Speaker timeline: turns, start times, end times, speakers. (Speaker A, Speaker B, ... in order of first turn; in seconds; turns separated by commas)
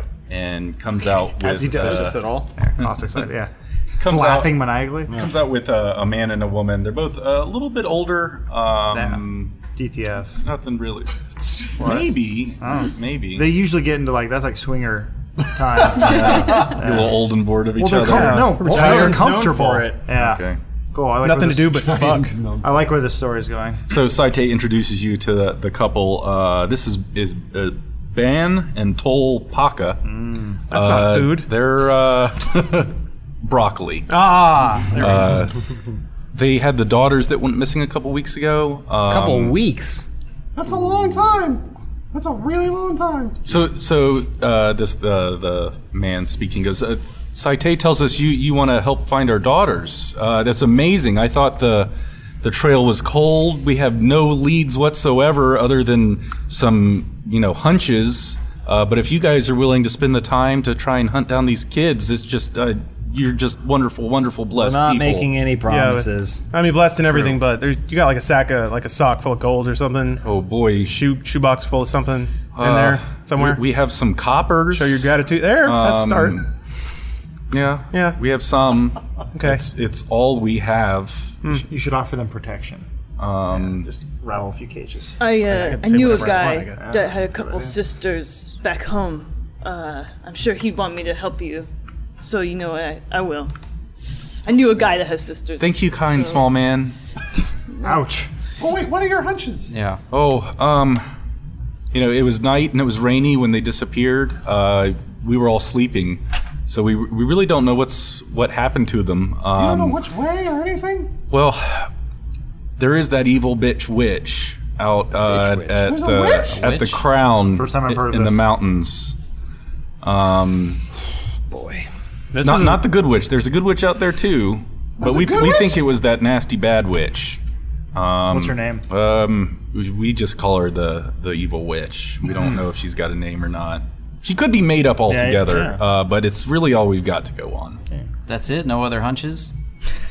Speaker A: 0.3-2.2, Speaker B: 1.4-5.2, Speaker C: 1.8-2.5, Speaker A: 4.0-9.5, Speaker B: 8.9-10.3, Speaker A: 10.4-13.5, Speaker B: 11.8-17.2, Speaker A: 15.9-18.6, Speaker D: 16.2-16.8, Speaker B: 17.8-21.9, Speaker E: 18.0-19.2, Speaker C: 18.5-20.0, Speaker A: 20.1-20.6, Speaker E: 21.2-22.4, Speaker D: 21.8-22.8, Speaker B: 22.6-23.8, Speaker A: 23.9-30.0, Speaker B: 30.1-30.6, Speaker E: 30.7-31.5, Speaker A: 30.7-34.1, Speaker E: 34.1-35.5, Speaker A: 35.0-35.5, Speaker A: 36.3-39.5, Speaker C: 39.1-40.1, Speaker D: 40.5-43.5, Speaker A: 43.5-65.3, Speaker C: 64.5-66.4, Speaker E: 65.7-70.2, Speaker A: 67.0-67.4, Speaker A: 70.2-71.0, Speaker E: 70.8-73.6, Speaker A: 72.5-76.5, Speaker E: 74.7-76.4, Speaker A: 77.5-81.4, Speaker E: 77.9-78.2, Speaker E: 79.3-79.7, Speaker B: 81.5-82.9, Speaker A: 83.2-83.9, Speaker B: 83.5-85.2, Speaker F: 85.2-91.7, Speaker E: 85.4-86.8, Speaker B: 86.8-87.8, Speaker F: 92.2-93.5, Speaker F: 94.4-96.4, Speaker A: 95.6-96.9, Speaker B: 97.8-98.3, Speaker D: 98.6-99.7, Speaker G: 99.7-100.0, Speaker A: 100.1-101.0, Speaker A: 101.9-110.0, Speaker D: 109.5-111.1, Speaker A: 111.3-111.9, Speaker A: 112.8-119.2, Speaker D: 115.8-116.6, Speaker G: 116.5-117.0, Speaker B: 117.5-118.4, Speaker A: 120.0-120.8, Speaker E: 122.3-122.8, Speaker A: 122.4-127.4, Speaker D: 125.0-125.8, Speaker A: 127.9-137.8, Speaker B: 128.3-128.8, Speaker B: 135.1-135.8, Speaker G: 138.3-139.5